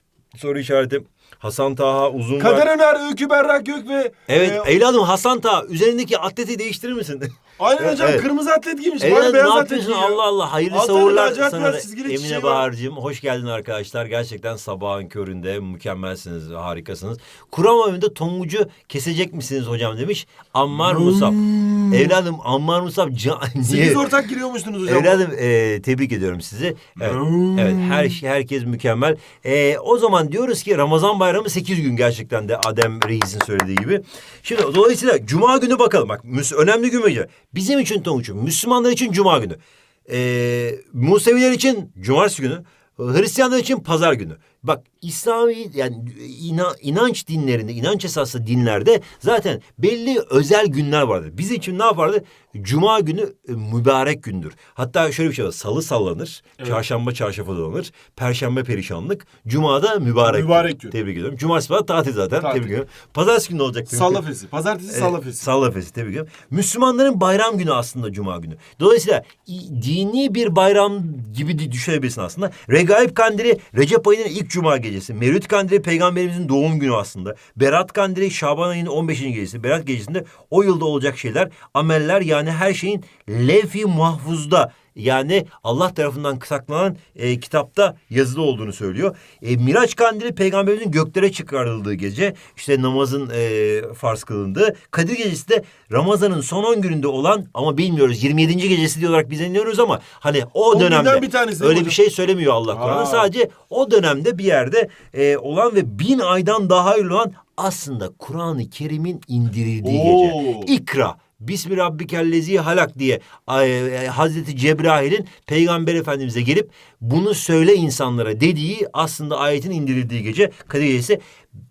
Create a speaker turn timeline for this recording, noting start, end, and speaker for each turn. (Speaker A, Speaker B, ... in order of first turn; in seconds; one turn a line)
Speaker A: 0.3-2.6
Speaker B: 2.4-4.7
Speaker A: 4.3-8.2
Speaker B: 7.6-12.7
Speaker A: 9.0-24.1
Speaker B: 20.8-22.1
Speaker B: 23.6-25.2
Speaker A: 24.8-64.2
Speaker B: 27.0-28.2
Speaker B: 60.2-60.9
Speaker B: 62.4-62.7
Speaker B: 63.9-65.4
Speaker A: 64.9-121.2
Speaker B: 100.7-102.0
Speaker B: 102.7-103.3
Speaker B: 109.8-110.7